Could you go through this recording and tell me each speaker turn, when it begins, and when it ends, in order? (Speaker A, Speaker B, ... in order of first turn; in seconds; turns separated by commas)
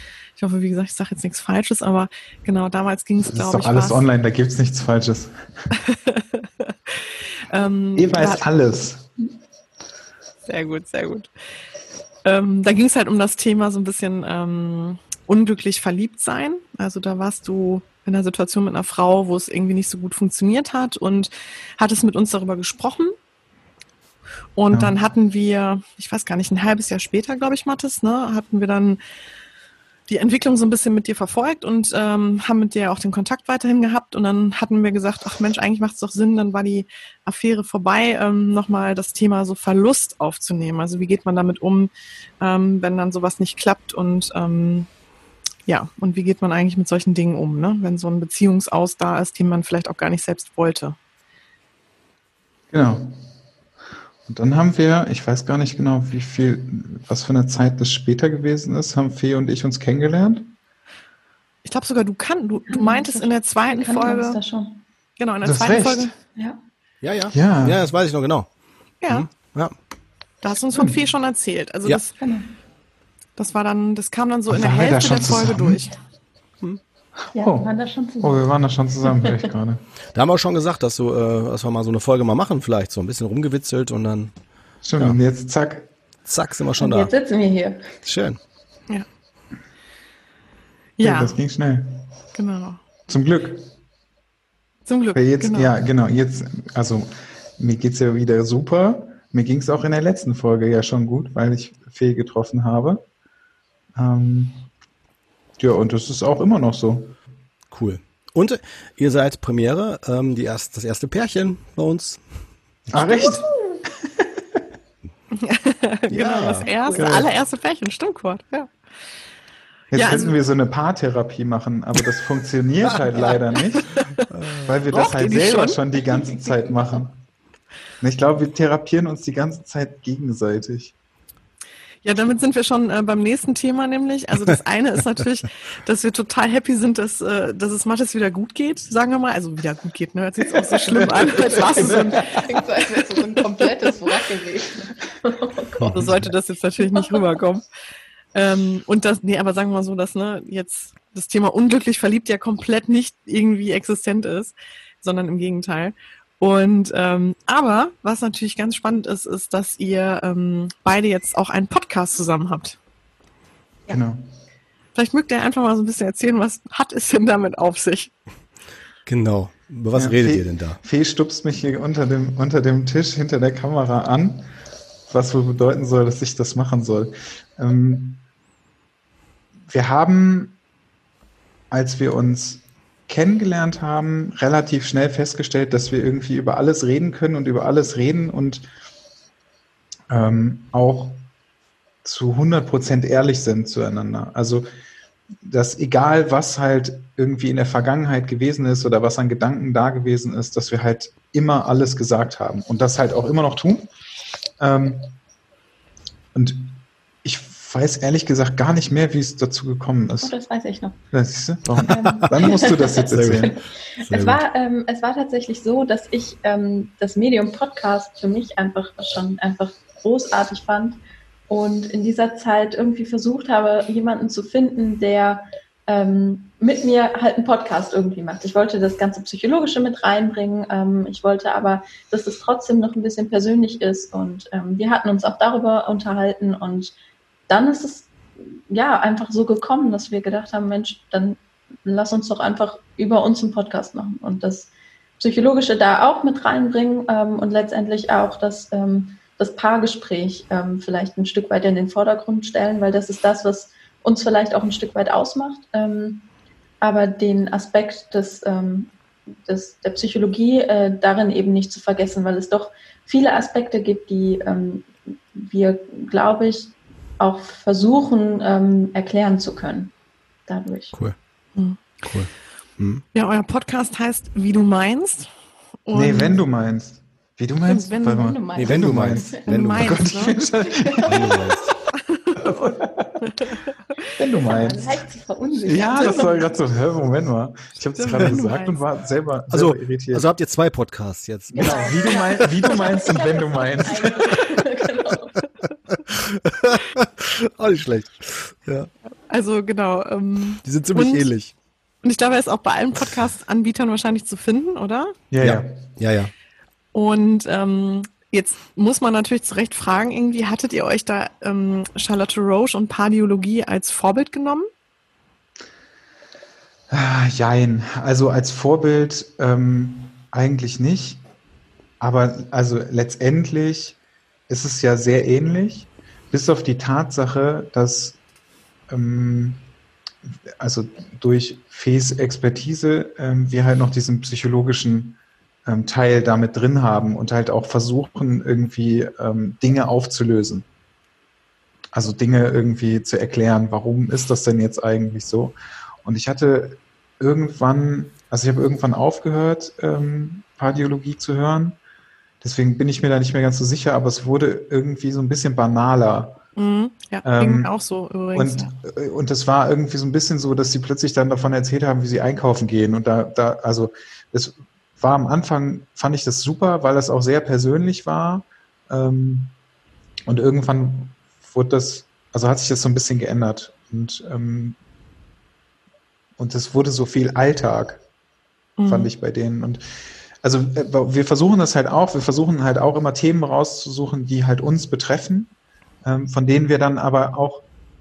Speaker A: 0.4-4.1, Speaker B: 3.3-5.3, Speaker A: 5.8-8.5, Speaker B: 8.0-9.1, Speaker A: 10.5-11.3, Speaker A: 12.2-23.2, Speaker A: 24.6-29.0, Speaker A: 30.1-41.9, Speaker A: 42.4-44.9, Speaker A: 45.7-51.0, Speaker B: 52.7-53.1, Speaker B: 54.3-60.5, Speaker A: 61.6-64.4, Speaker C: 62.7-64.8, Speaker A: 65.2-66.1, Speaker B: 65.4-66.1, Speaker D: 67.0-68.5, Speaker B: 67.3-67.8, Speaker A: 69.0-69.3, Speaker D: 69.1-69.8, Speaker A: 70.4-72.1, Speaker C: 72.2-72.5, Speaker A: 73.4-76.0, Speaker B: 74.5-75.9, Speaker C: 77.3-78.5, Speaker B: 77.3-79.8, Speaker D: 80.1-84.3, Speaker B: 84.8-85.9, Speaker D: 86.2-87.1, Speaker C: 86.8-87.9, Speaker D: 88.0-88.4, Speaker A: 91.0-91.4, Speaker B: 91.0-92.0, Speaker A: 92.3-92.8, Speaker B: 93.1-93.6, Speaker A: 94.9-95.7, Speaker B: 95.1-103.0, Speaker B: 104.0-104.6, Speaker B: 105.6-107.2, Speaker D: 107.7-112.2, Speaker B: 112.9-114.6, Speaker A: 115.3-118.7, Speaker D: 116.1-117.1, Speaker B: 116.9-117.3, Speaker A: 119.9-120.4, Speaker B: 119.9-123.9, Speaker A: 123.4-124.2, Speaker D: 124.3-124.7, Speaker B: 124.6-127.2, Speaker A: 124.9-126.4, Speaker B: 128.0-130.9, Speaker A: 132.0-143.9, Speaker B: 140.9-141.8, Speaker C: 141.5-146.1, Speaker D: 145.8-146.2, Speaker A: 145.9-147.6, Speaker C: 146.8-147.2, Speaker A: 148.3-162.8, Speaker B: 163.9-164.3, Speaker A: 164.9-168.1, Speaker D: 169.1-170.8, Speaker B: 169.9-174.5, Speaker B: 175.1-178.2, Speaker B: 179.7-180.6, Speaker B: 181.7-188.7, Speaker B: 190.1-191.2, Speaker B: 192.0-194.7, Speaker B: 195.4-203.9, Speaker B: 204.6-205.1, Speaker B: 206.3-210.3, Speaker C: 210.2-211.0, Speaker B: 211.1-213.5, Speaker C: 211.9-236.9, Speaker D: 213.0-214.4, Speaker C: 237.5-256.3, Speaker C: 256.8-269.9, Speaker C: 270.5-270.9, Speaker D: 272.0-273.0, Speaker A: 273.1-275.3, Speaker A: 275.9-276.4, Speaker B: 275.9-281.4, Speaker A: 277.7-278.3, Speaker C: 278.0-279.4, Speaker D: 278.6-280.1, Speaker A: 279.5-280.4, Speaker C: 280.6-281.5, Speaker D: 281.1-281.7, Speaker A: 282.1-283.5, Speaker B: 282.4-283.3, Speaker B: 284.1-285.0, Speaker C: 284.4-286.5, Speaker B: 285.7-290.3, Speaker A: 288.0-288.8, Speaker D: 289.5-292.6, Speaker C: 291.5-295.4, Speaker B: 291.6-294.4, Speaker D: 296.1-298.9, Speaker A: 299.3-301.3, Speaker D: 300.6-301.5, Speaker A: 302.0-305.2, Speaker B: 305.3-305.8, Speaker D: 305.4-306.3, Speaker A: 306.9-314.7, Speaker B: 316.9-321.2, Speaker B: 322.0-324.0, Speaker B: 324.5-328.2, Speaker B: 328.9-329.6, Speaker B: 330.6-340.7, Speaker B: 341.9-351.8, Speaker B: 352.4-356.4, Speaker A: 356.6-358.7, Speaker B: 357.2-357.7, Speaker B: 358.3-369.5, Speaker B: 370.3-374.8, Speaker B: 376.4-378.0, Speaker A: 378.8-379.1, Speaker B: 378.9-379.8, Speaker B: 380.4-385.5, Speaker B: 386.0-387.7